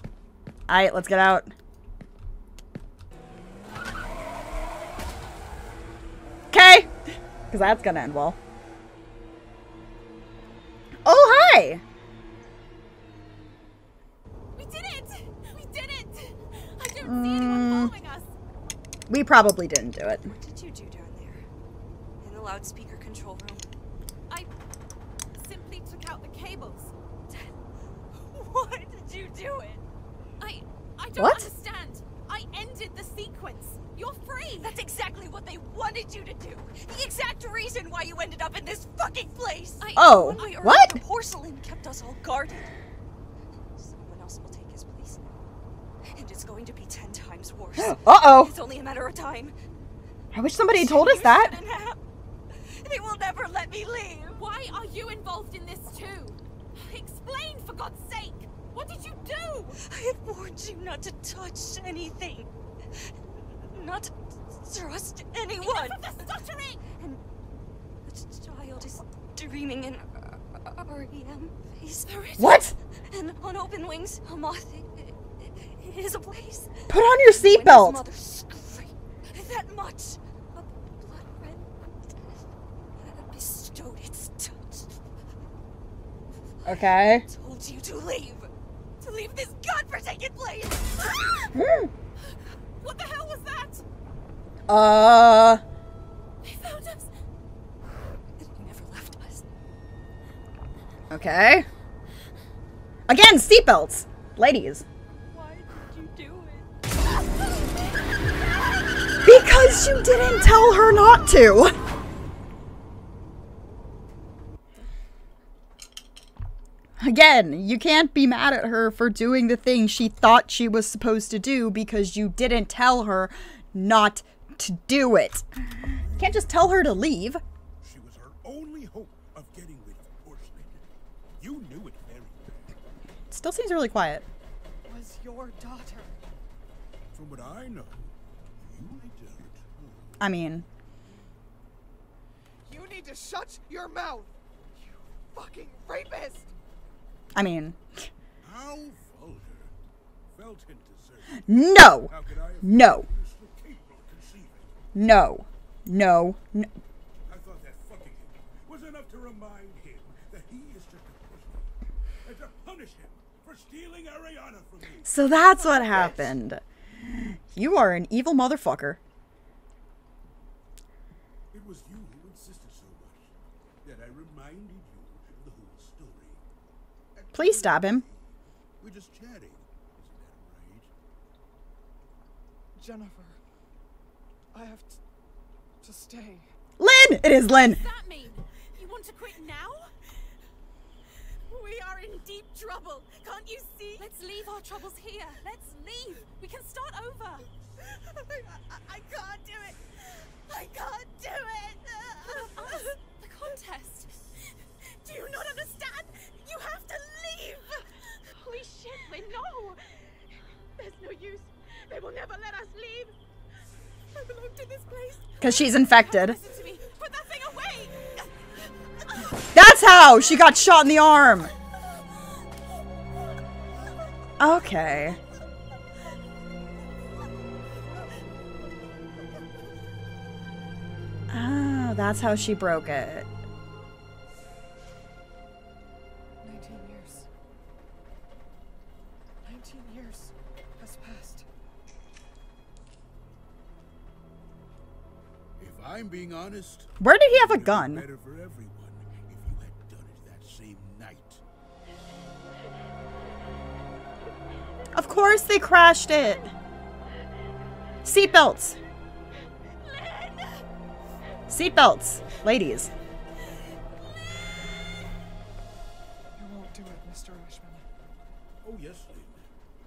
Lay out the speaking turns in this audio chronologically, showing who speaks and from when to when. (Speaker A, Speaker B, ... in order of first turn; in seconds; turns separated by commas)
Speaker A: 0.7-1.5, Speaker A: 6.5-6.9, Speaker A: 7.5-8.4, Speaker A: 11.0-11.8, Speaker B: 14.5-18.3, Speaker A: 17.0-17.9, Speaker A: 19.1-20.3, Speaker C: 20.1-21.4, Speaker C: 22.2-23.6, Speaker B: 25.3-27.5, Speaker C: 28.1-29.8, Speaker C: 30.4-30.7, Speaker B: 31.0-34.8, Speaker A: 31.2-31.5, Speaker C: 34.5-42.7, Speaker A: 40.0-41.0, Speaker B: 40.2-40.5, Speaker C: 43.8-45.4, Speaker C: 46.1-49.5, Speaker A: 47.8-48.5, Speaker A: 50.3-51.5, Speaker C: 50.6-54.5, Speaker B: 54.4-59.8, Speaker C: 59.8-62.5, Speaker C: 63.7-66.2, Speaker B: 65.6-66.8, Speaker C: 66.9-67.2, Speaker C: 68.0-82.3, Speaker A: 72.4-72.7, Speaker A: 76.9-78.0, Speaker C: 83.1-84.9, Speaker A: 86.7-87.2, Speaker C: 86.7-88.5, Speaker C: 89.0-91.4, Speaker A: 91.5-91.9, Speaker B: 92.8-93.8, Speaker A: 94.7-95.6, Speaker B: 96.4-97.1, Speaker C: 98.4-99.5, Speaker A: 101.1-101.7, Speaker A: 103.1-104.8, Speaker C: 105.2-106.7, Speaker A: 109.2-111.7, Speaker A: 117.0-127.4, Speaker D: 126.0-127.0, Speaker D: 127.8-130.8, Speaker D: 131.4-132.8, Speaker A: 133.3-134.2, Speaker E: 134.8-136.2, Speaker D: 137.1-140.2, Speaker A: 140.2-140.7, Speaker E: 142.6-146.5, Speaker A: 147.3-147.8, Speaker D: 148.4-149.7, Speaker D: 150.3-154.7, Speaker A: 151.4-153.1, Speaker A: 154.9-156.7, Speaker D: 157.2-161.7, Speaker D: 162.2-165.3, Speaker A: 165.0-169.0, Speaker E: 165.6-166.3, Speaker D: 171.5-176.4, Speaker D: 177.1-180.9, Speaker A: 177.3-178.0, Speaker E: 182.8-183.4, Speaker E: 184.5-185.0, Speaker E: 185.8-186.5, Speaker A: 186.8-187.8, Speaker B: 187.5-189.9, Speaker B: 191.5-197.5, Speaker E: 194.0-194.9, Speaker B: 198.5-199.8, Speaker B: 200.5-204.1, Speaker E: 200.5-202.8, Speaker B: 205.0-210.2, Speaker B: 210.8-213.1, Speaker B: 214.1-218.3, Speaker A: 215.4-216.4, Speaker A: 219.5-221.5, Speaker A: 224.4-225.2, Speaker A: 231.3-233.3, Speaker E: 236.4-237.3, Speaker E: 239.4-241.4, Speaker D: 245.6-251.4, Speaker A: 247.0-248.1, Speaker A: 254.9-256.5, Speaker A: 258.0-258.8, Speaker A: 261.5-262.9, Speaker E: 266.4-267.8, Speaker D: 268.6-269.5